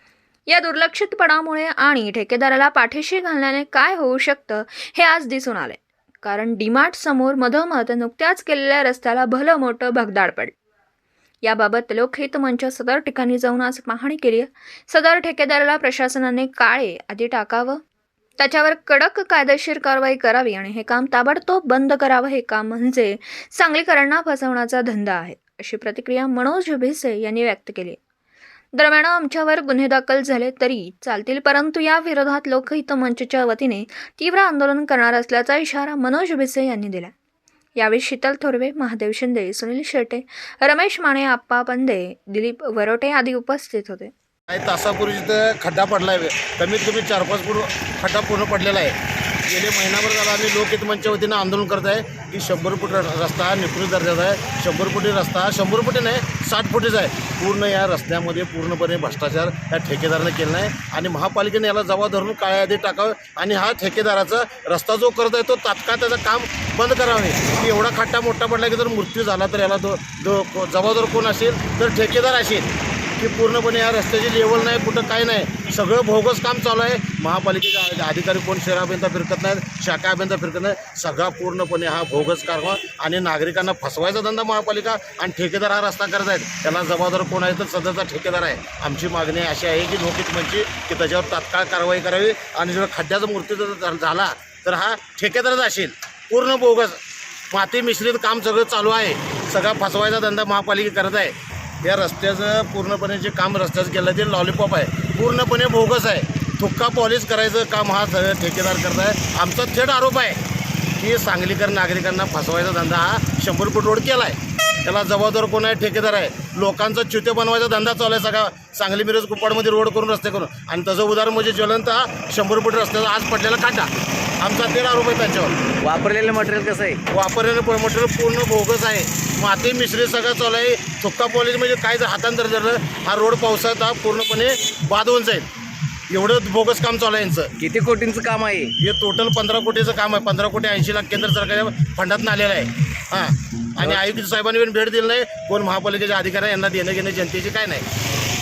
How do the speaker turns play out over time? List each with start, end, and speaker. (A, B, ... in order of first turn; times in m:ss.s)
0:00.5-0:10.6 A
0:11.4-0:17.8 A
0:18.4-0:28.0 A
0:28.8-0:37.1 A
0:37.8-0:44.1 A
0:44.5-0:49.0 B
0:49.5-1:50.4 B
1:51.0-2:03.9 B
2:04.4-2:05.6 B
2:05.8-2:07.0 C
2:07.1-2:15.5 B
2:16.1-2:17.5 B
2:17.6-2:18.7 C
2:18.8-2:27.8 B
2:23.8-2:24.1 C